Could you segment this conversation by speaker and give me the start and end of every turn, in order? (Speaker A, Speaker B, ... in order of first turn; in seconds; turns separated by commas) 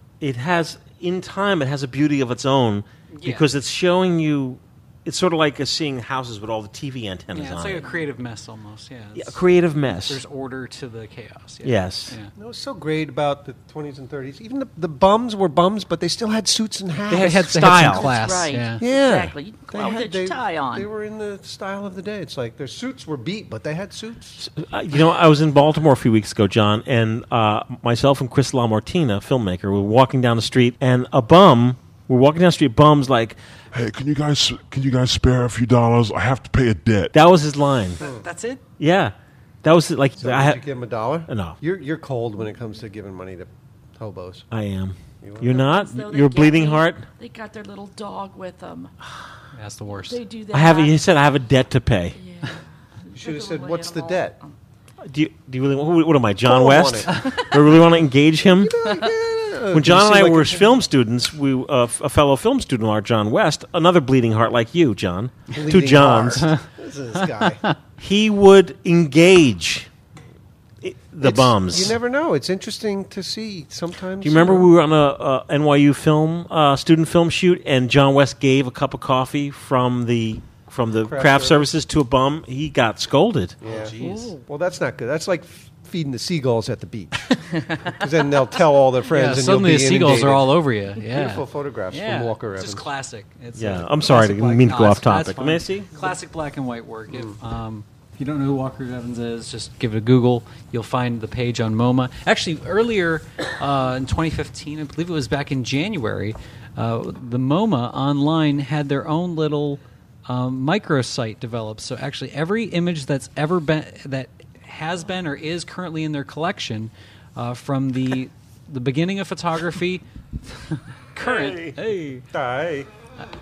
Speaker A: 0.2-7.9, Speaker B: 3.1-3.5, Speaker B: 7.3-9.4, Speaker A: 9.2-10.2, Speaker B: 10.1-12.3, Speaker A: 11.6-12.2, Speaker C: 12.4-18.0, Speaker B: 17.1-18.8, Speaker A: 17.5-18.1, Speaker D: 17.9-20.9, Speaker C: 18.8-24.4, Speaker A: 24.4-33.4, Speaker E: 33.7-37.1, Speaker A: 37.1-38.0, Speaker B: 38.0-38.6, Speaker A: 38.8-40.6, Speaker C: 40.2-44.5, Speaker A: 41.3-41.6, Speaker A: 44.5-47.1, Speaker C: 45.2-45.6, Speaker D: 45.5-48.9, Speaker B: 49.5-50.2, Speaker D: 49.9-51.0, Speaker A: 50.5-52.2, Speaker D: 52.2-54.5, Speaker C: 53.1-54.4, Speaker A: 55.0-58.8, Speaker C: 56.5-57.1, Speaker C: 58.6-60.8, Speaker A: 59.7-66.5, Speaker C: 65.5-67.6, Speaker A: 68.0-69.9, Speaker A: 70.8-72.0, Speaker C: 71.2-74.7, Speaker A: 74.2-83.6, Speaker C: 81.0-81.7, Speaker C: 83.6-92.9, Speaker B: 83.7-84.3, Speaker D: 84.0-84.4, Speaker B: 89.1-120.0, Speaker A: 93.6-95.9, Speaker B: 120.6-122.3, Speaker A: 121.2-121.7, Speaker C: 122.3-122.9